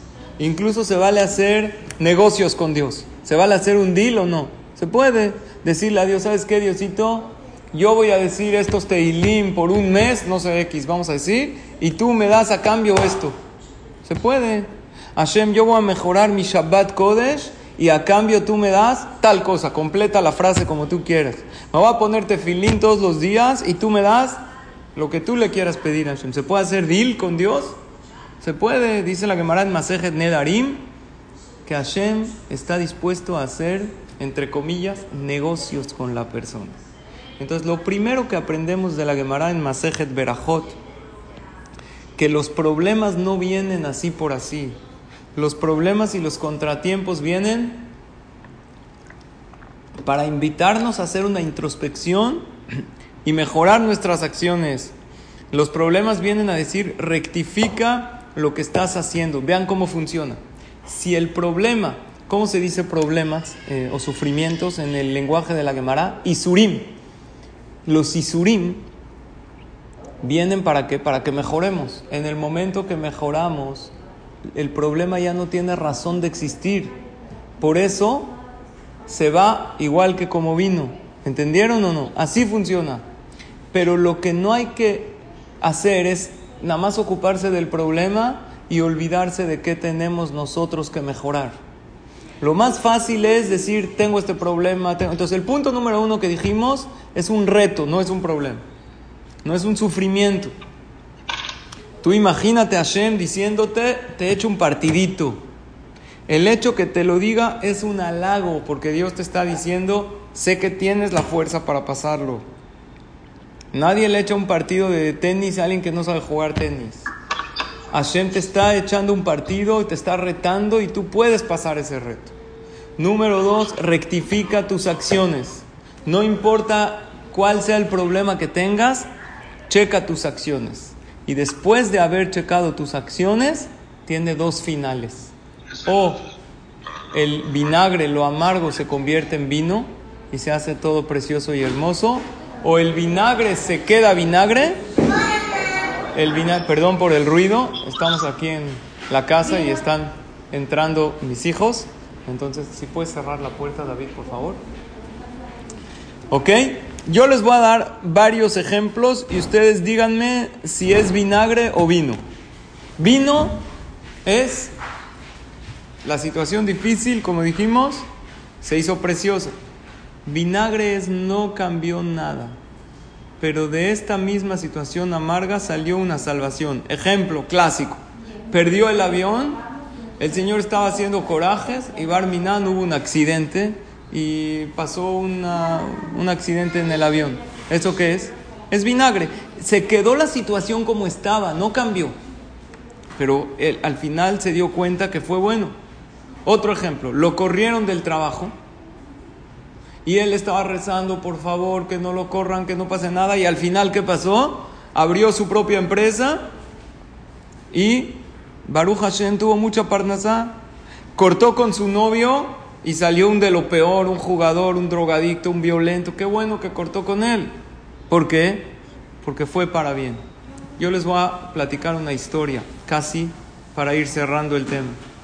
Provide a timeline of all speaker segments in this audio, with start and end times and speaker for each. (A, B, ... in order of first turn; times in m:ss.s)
0:00.4-0:13.3 A
0:14.0-0:24.4 A
0:24.9-0:27.8 A
0:28.4-0:30.9 A
0:31.6-0:36.8 A
0:37.4-0:40.8 A
0:42.2-0:44.8 A
0:45.3-0:47.9 A
0:50.0-0:52.5 A
0:53.2-0:54.9 A
0:55.5-1:07.0 A
1:07.8-1:08.8 A
1:10.2-1:13.9 A
1:14.5-1:16.9 A
1:17.6-1:18.3 A
1:19.1-1:23.0 A
1:23.7-1:31.6 A
1:32.4-1:38.6 A
1:39.4-1:40.5 A
1:42.0-1:45.4 A
1:46.3-1:52.4 A
1:53.7-1:57.1 A
1:57.9-2:02.3 A
2:03.0-2:09.1 A
2:09.7-2:15.3 A
2:15.8-2:16.2 A
2:17.1-2:24.8 A
2:26.1-2:34.6 A
2:36.3-2:42.2 A
2:43.0-2:43.6 A
2:44.2-2:44.7 A
2:46.0-2:48.0 A
2:48.6-2:49.5 A
2:50.2-2:52.6 A
2:53.4-2:59.6 A
3:00.2-3:12.1 A
3:13.2-3:15.7 A
3:16.4-3:18.5 A
3:20.0-3:26.4 A
3:27.7-3:30.5 A
3:31.2-3:37.5 A
3:38.1-3:40.2 A
3:40.8-3:45.0 A